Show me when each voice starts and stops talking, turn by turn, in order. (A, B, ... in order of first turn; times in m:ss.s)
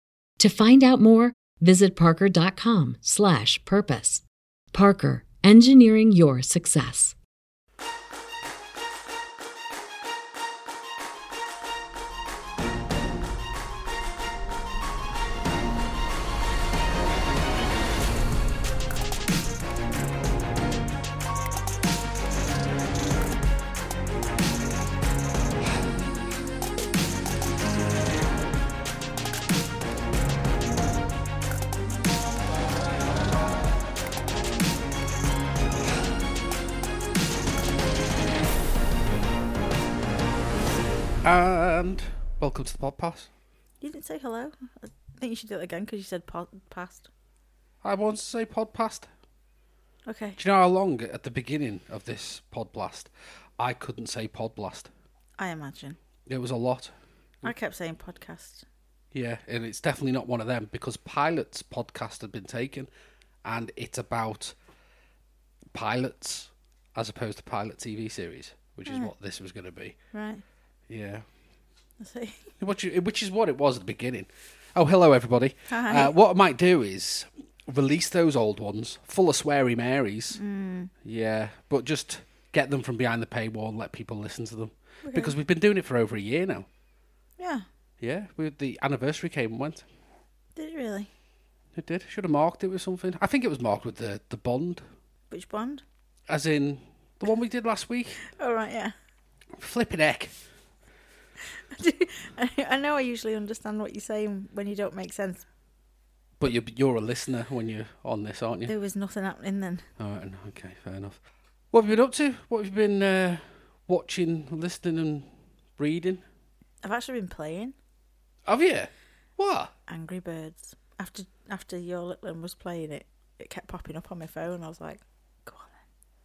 0:00.4-0:07.2 A
0:41.2-0:43.3 B
0:43.8-0:47.1 C
0:47.8-0:49.1 B
0:50.1-0:50.4 C
0:50.4-0:54.9 B
0:55.4-0:56.0 C
0:56.2-0:57.5 B
0:57.4-0:58.6 C
0:59.1-1:02.9 B
1:03.4-1:04.6 B
1:05.7-1:10.0 B
1:08.9-1:09.1 C
1:10.1-1:10.4 C
1:10.9-1:11.2 B
1:12.0-1:12.5 C
1:12.6-1:20.4 B
1:15.7-1:16.1 C
1:20.3-1:20.9 C
1:21.0-1:26.7 B
1:25.0-1:25.4 C
1:27.4-1:27.6 C
1:28.0-1:29.8 B
1:30.6-1:31.1 C
1:31.8-1:34.8 B
1:35.3-1:35.8 C
1:36.3-1:38.2 B
1:38.3-1:38.9 C
1:39.6-1:40.3 B
1:41.5-1:45.4 C
1:46.4-1:48.7 B
1:48.7-1:49.8 C
1:50.0-1:51.2 B
1:51.7-1:56.2 B
1:56.8-1:57.7 C
1:58.5-1:59.7 B
1:59.9-2:05.8 C